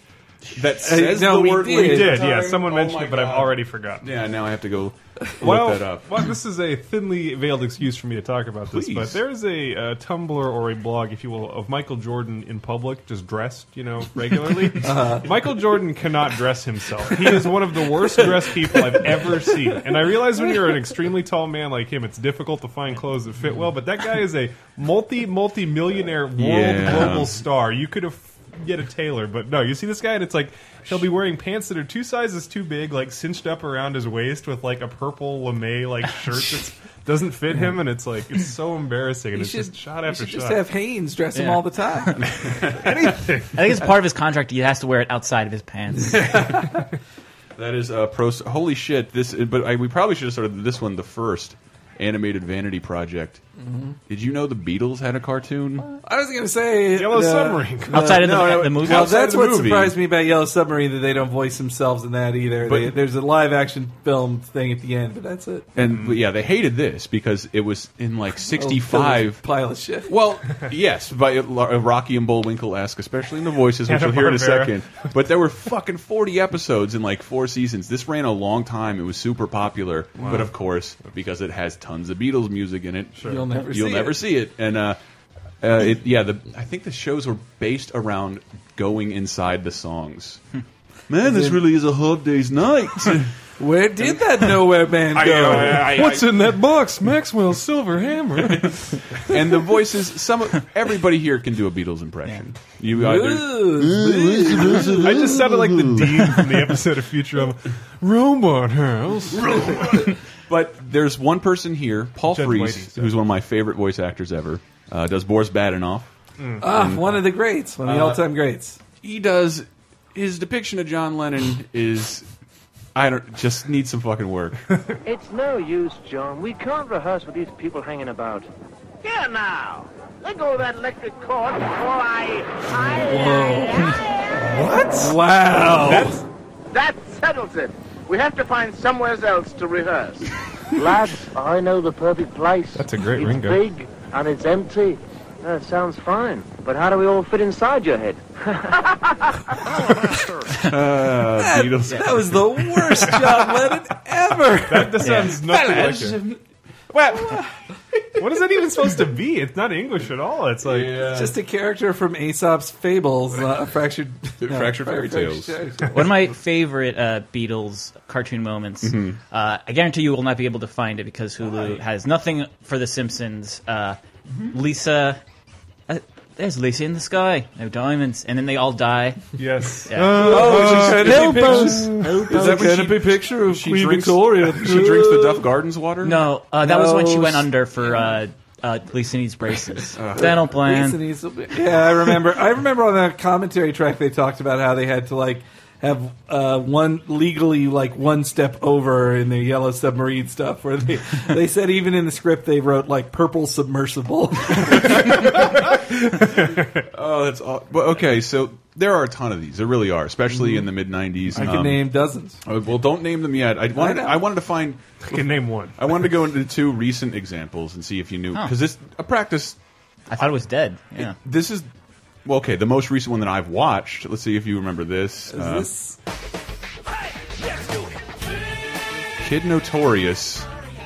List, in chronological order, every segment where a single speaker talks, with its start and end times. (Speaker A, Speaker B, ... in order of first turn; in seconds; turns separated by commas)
Speaker A: 0.5-6.2, Speaker B: 0.8-2.3, Speaker C: 1.7-4.1, Speaker C: 5.4-40.6, Speaker A: 8.7-9.2, Speaker B: 14.8-15.3, Speaker A: 26.4-27.4, Speaker B: 39.3-42.1, Speaker D: 41.3-42.2, Speaker A: 42.2-43.1, Speaker C: 42.8-43.6, Speaker D: 43.5-46.5, Speaker A: 47.5-53.4, Speaker B: 53.6-54.0, Speaker A: 54.1-55.9, Speaker B: 56.0-65.7, Speaker C: 56.9-58.1, Speaker D: 57.9-59.2, Speaker A: 58.1-59.9, Speaker A: 62.6-63.0, Speaker A: 65.8-69.4, Speaker B: 68.5-70.1, Speaker A: 70.1-85.0, Speaker C: 73.9-74.7, Speaker C: 80.2-80.5, Speaker B: 83.2-84.2, Speaker A: 85.6-90.4, Speaker A: 91.1-93.3, Speaker B: 91.2-91.6, Speaker B: 93.6-95.9, Speaker A: 95.2-96.4, Speaker C: 95.2-99.2, Speaker A: 98.4-98.7, Speaker A: 99.3-106.3, Speaker B: 102.9-105.1, Speaker C: 105.0-109.9, Speaker A: 109.6-117.1, Speaker C: 112.3-113.2, Speaker B: 116.6-118.8, Speaker A: 117.8-118.2, Speaker A: 119.0-122.3, Speaker A: 122.9-124.6, Speaker E: 125.0-128.5, Speaker E: 129.0-134.0, Speaker B: 132.8-133.9, Speaker C: 134.5-135.1, Speaker B: 134.9-136.2, Speaker E: 136.7-149.4, Speaker C: 142.8-143.6, Speaker A: 150.6-152.4, Speaker B: 151.4-155.0, Speaker C: 154.7-156.2, Speaker A: 155.2-156.4, Speaker A: 156.9-157.4, Speaker C: 158.2-160.9, Speaker A: 160.6-161.3, Speaker B: 161.1-166.2, Speaker A: 164.4-165.6, Speaker D: 165.9-175.2, Speaker A: 168.8-169.2, Speaker D: 175.9-179.2, Speaker C: 179.4-182.5, Speaker D: 179.9-180.4, Speaker B: 180.2-185.5, Speaker A: 180.4-186.2, Speaker D: 186.0-191.0, Speaker B: 186.6-187.5, Speaker A: 189.9-190.4, Speaker B: 190.2-205.4, Speaker C: 206.2-206.8, Speaker A: 206.9-211.8, Speaker B: 211.3-212.4, Speaker A: 212.4-215.2, Speaker B: 213.8-214.2, Speaker C: 215.1-215.8, Speaker A: 215.8-219.6, Speaker D: 220.1-221.2, Speaker A: 221.0-221.7, Speaker A: 222.2-225.7, Speaker B: 225.3-226.0, Speaker A: 229.2-230.5